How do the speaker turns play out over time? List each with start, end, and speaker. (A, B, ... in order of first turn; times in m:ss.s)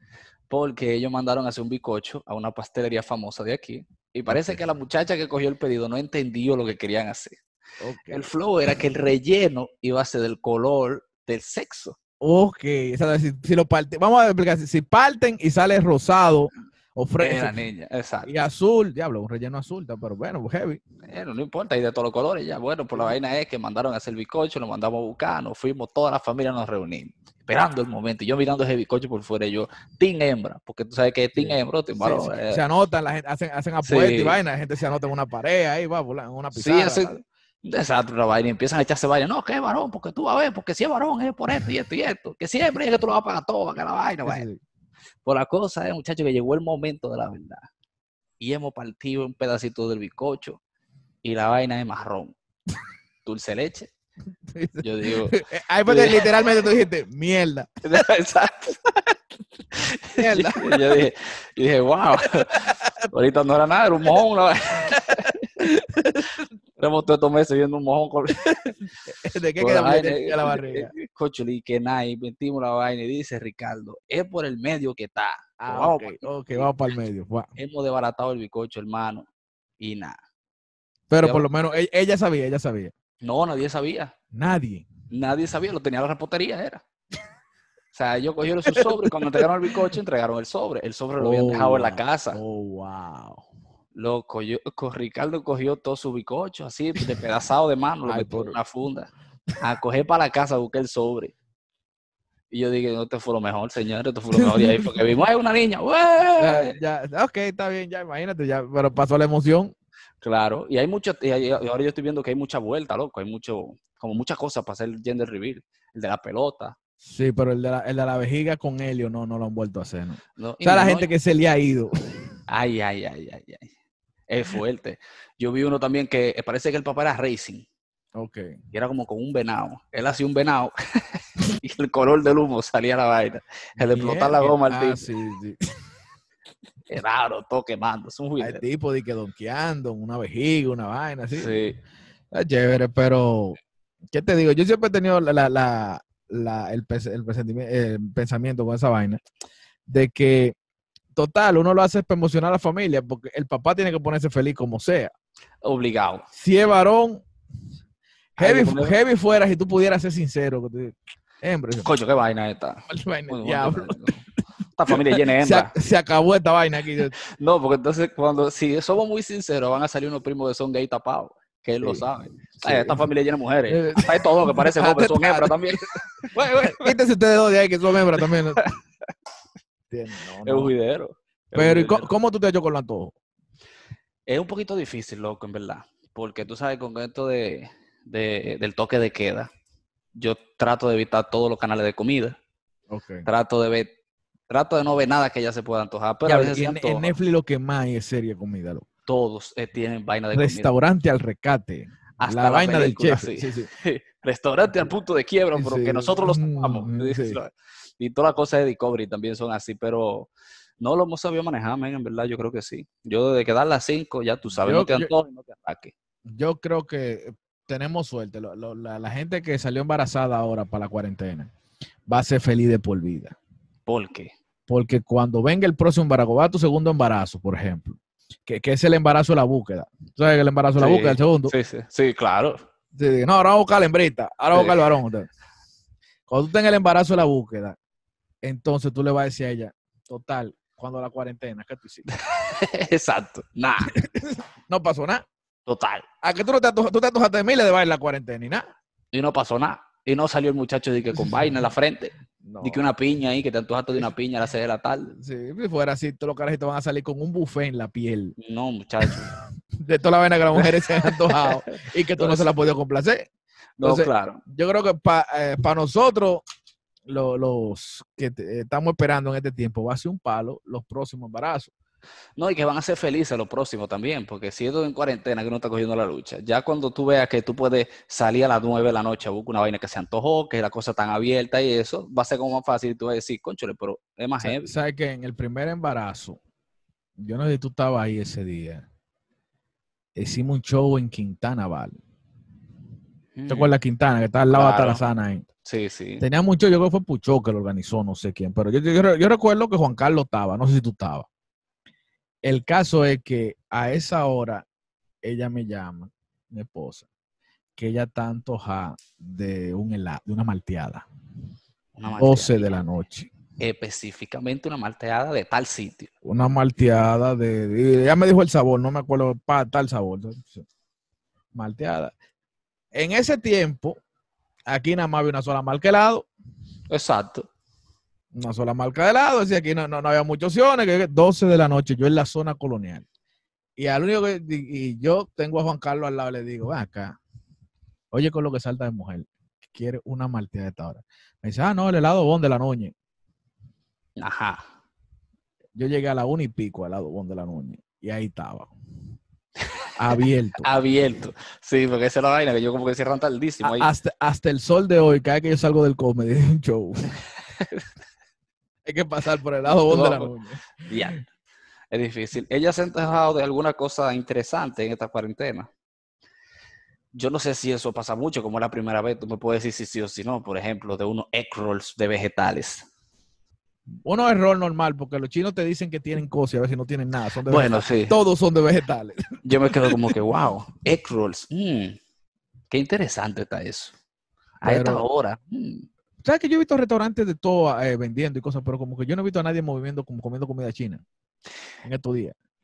0:00.5-0:07.4 A
0:07.8-0:08.3 B
0:08.1-0:12.0 A
0:12.2-0:17.6 B
0:17.2-0:18.3 A
0:18.2-0:20.8 B
0:21.1-0:32.6 A
0:31.4-0:37.2 B
0:33.8-0:34.4 A
0:36.5-0:44.4 A
0:44.2-0:44.6 B
0:45.2-0:47.6 A
0:48.4-0:50.6 A
0:51.2-0:52.3 A
0:53.2-0:53.9 A
0:54.4-0:57.7 B
0:54.8-0:56.3 A
0:57.8-0:58.9 A
0:59.7-1:05.5 A
1:00.2-1:01.0 B
1:02.5-1:02.9 B
1:05.0-1:06.4 B
1:06.8-1:08.7 A
1:09.0-1:10.9 B
1:09.6-1:16.7 A
1:15.6-1:17.5 B
1:17.6-1:19.3 A
1:19.8-1:20.2 A
1:21.1-1:22.9 B
1:21.2-1:21.5 A
1:23.2-1:24.1 A
1:24.3-1:24.8 B
1:25.1-1:26.8 A
1:27.9-1:32.4 A
1:28.7-1:29.9 B
1:31.2-1:33.4 B
1:33.9-1:41.3 A
1:38.1-1:38.6 B
1:42.5-1:46.8 A
1:44.3-1:45.0 B
1:46.4-1:49.7 B
1:50.2-1:56.8 A
1:57.0-2:02.3 B
2:00.4-2:01.1 A
2:02.5-2:03.7 A
2:04.3-2:07.6 A
2:08.2-2:08.5 B
2:08.7-2:15.0 A
2:13.8-2:15.6 B
2:16.9-2:18.6 A
2:18.4-2:21.6 B
2:21.3-2:21.8 A
2:22.3-2:23.6 B
2:24.1-2:29.2 B
2:29.9-2:30.5 B
2:31.1-2:35.1 B
2:35.6-2:36.2 A
2:36.3-2:37.2 B
2:38.4-2:41.9 B
2:38.4-2:39.0 A
2:41.8-2:44.2 A
2:42.9-2:44.0 B
2:44.7-2:45.7 A
2:44.9-2:47.1 B
2:47.2-2:56.9 A
2:51.8-2:53.0 B
2:53.7-2:56.0 B
2:56.6-2:58.6 B
2:58.1-2:58.7 A
2:59.9-3:00.7 B
3:00.4-3:02.1 A
3:01.5-3:03.1 B
3:04.3-3:09.5 A
3:10.2-3:12.4 A
3:12.9-3:13.2 B
3:13.2-3:13.9 A
3:14.5-3:17.1 A
3:16.2-3:18.8 B
3:19.1-3:20.7 A
3:20.3-3:23.7 B
3:22.2-3:30.3 A
3:25.6-3:27.4 B
3:30.8-3:35.9 A
3:34.6-3:35.1 B
3:36.3-3:41.5 B
3:42.1-3:43.4 B
3:43.9-3:44.3 A
3:44.7-3:51.5 B
3:50.8-3:52.6 A
3:52.9-3:55.3 B
3:54.5-3:54.9 A
3:56.3-3:57.8 B
3:58.4-4:02.1 B
4:02.1-4:03.9 A
4:03.9-4:05.2 B
4:05.6-4:06.0 A
4:06.2-4:08.6 B
4:09.1-4:15.2 A
4:12.4-4:12.8 B
4:15.2-4:18.3 B
4:18.4-4:19.3 A
4:19.8-4:23.3 B
4:20.5-4:22.7 A
4:23.8-4:24.4 A
4:23.8-4:26.4 B
4:27.1-4:31.7 B
4:32.4-4:44.7 A
4:44.4-4:46.4 B
4:47.2-4:48.8 B
4:50.1-4:52.0 B
4:53.3-4:53.8 A
4:53.5-4:55.5 B
4:54.5-4:55.0 A
4:55.6-4:56.2 A
4:56.2-5:01.3 B
5:02.4-5:04.6 B
5:05.2-5:07.0 B
5:07.8-5:11.0 B
5:11.9-5:12.8 A
5:12.2-5:13.3 B
5:13.6-5:16.1 A
5:16.2-5:20.6 B
5:21.5-5:22.1 B
5:22.9-5:24.0 B
5:24.7-5:26.3 B
5:26.9-5:27.5 A
5:28.3-5:33.0 B
5:33.8-5:37.2 B
5:38.1-5:42.9 B
5:44.2-5:44.6 A
5:45.8-5:48.7 B
5:50.0-5:50.7 B
5:50.6-5:53.9 A
5:53.6-5:57.1 B
5:57.5-5:57.8 A
5:58.8-6:01.1 B
5:59.9-6:00.3 A
6:00.9-6:01.2 A
6:01.9-6:05.7 A
6:07.1-6:12.9 A
6:14.0-6:20.1 B
6:17.5-6:18.2 A
6:19.4-6:22.0 A
6:22.7-6:23.9 A
6:24.6-6:25.8 A
6:24.6-6:25.0 B
6:26.2-6:31.0 B
6:31.8-6:32.3 B